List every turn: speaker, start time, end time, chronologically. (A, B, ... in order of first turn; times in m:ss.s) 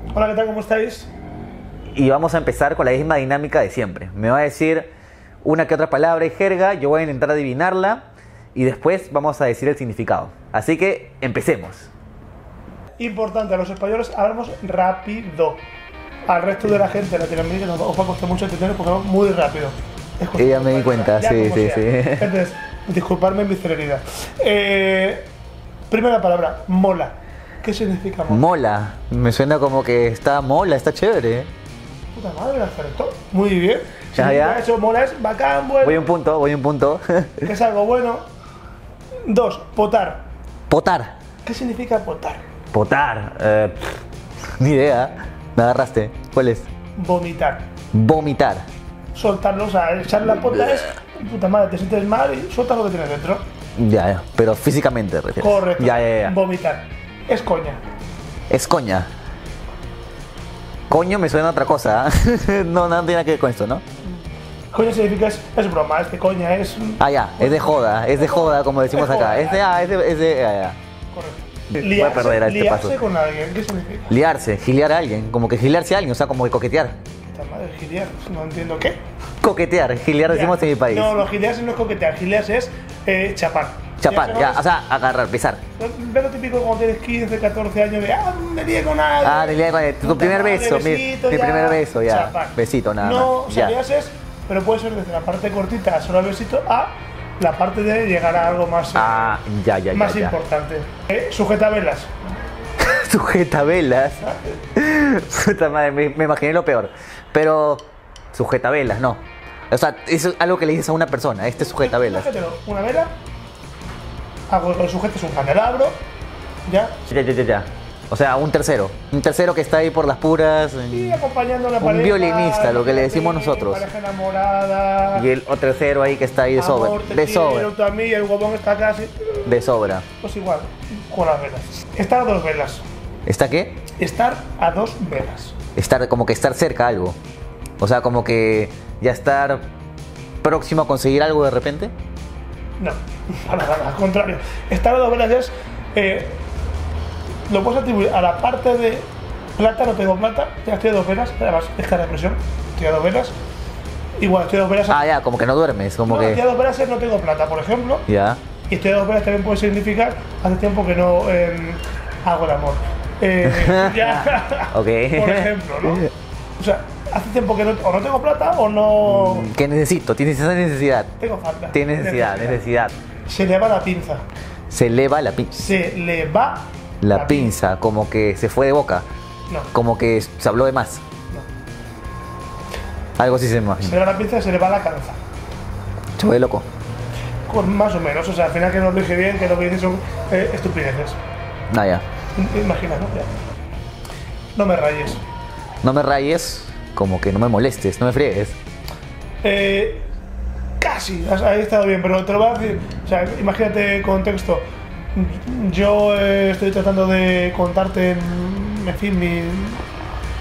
0:00.1-0:01.1 A
0:01.9-0:04.9 B
0:05.4-0:08.0 B
0:08.5-0:11.9 B
0:13.0-0:15.6 A
0:16.3-0:25.3 A
0:20.4-0:22.3 B
0:25.9-0:28.4 A
0:28.3-0:31.5 B
0:32.1-0:36.0 A
0:34.2-0:34.6 B
0:35.8-0:37.4 B
0:37.4-0:38.2 A
0:39.3-0:40.2 A
0:40.7-0:41.1 B
0:41.4-0:42.4 A
0:42.7-0:44.0 B
0:44.6-0:46.7 B
0:47.0-0:47.6 A
0:47.9-0:48.6 B
0:49.1-0:53.4 A
0:53.8-0:56.3 B
0:55.4-0:57.8 A
0:58.5-0:59.1 B
1:00.9-1:03.8 B
1:04.7-1:09.7 A
1:07.0-1:10.8 B
1:11.1-1:14.2 A
1:11.7-1:13.0 B
1:14.1-1:17.0 B
1:17.2-1:19.0 A
1:19.4-1:21.2 B
1:20.3-1:24.6 A
1:24.0-1:25.6 B
1:25.8-1:39.4 A
1:29.2-1:33.7 B
1:38.9-1:40.3 B
1:39.9-1:42.1 A
1:42.8-1:52.3 B
1:51.8-1:53.1 A
1:54.5-1:56.0 A
1:56.7-1:57.0 A
1:57.1-2:01.2 B
2:00.9-2:05.3 A
2:01.8-2:03.8 B
2:05.1-2:07.7 B
2:06.5-2:12.8 A
2:09.4-2:10.0 B
2:13.2-2:13.8 B
2:14.0-2:15.5 A
2:15.8-2:17.2 B
2:17.8-2:19.6 B
2:20.4-2:21.9 B
2:22.8-2:26.4 A
2:27.5-2:33.3 A
2:34.2-2:35.0 A
2:34.9-2:36.4 B
2:36.0-2:38.0 A
2:38.1-2:38.4 B
2:38.7-2:49.5 A
2:43.5-2:46.1 B
2:49.1-2:51.1 B
2:51.2-2:52.7 A
2:51.7-2:52.9 B
2:53.3-2:54.2 A
2:54.7-2:55.6 B
2:55.5-2:57.6 A
2:57.0-2:59.0 B
2:59.7-3:01.0 B
3:03.2-3:04.0 B
3:03.8-3:05.2 A
3:06.2-3:06.6 B
3:07.5-3:11.2 A
3:11.7-3:12.0 B
3:12.4-3:13.3 A
3:14.6-3:15.2 A
3:15.8-3:18.6 B
3:19.4-3:20.0 A
3:20.8-3:29.8 A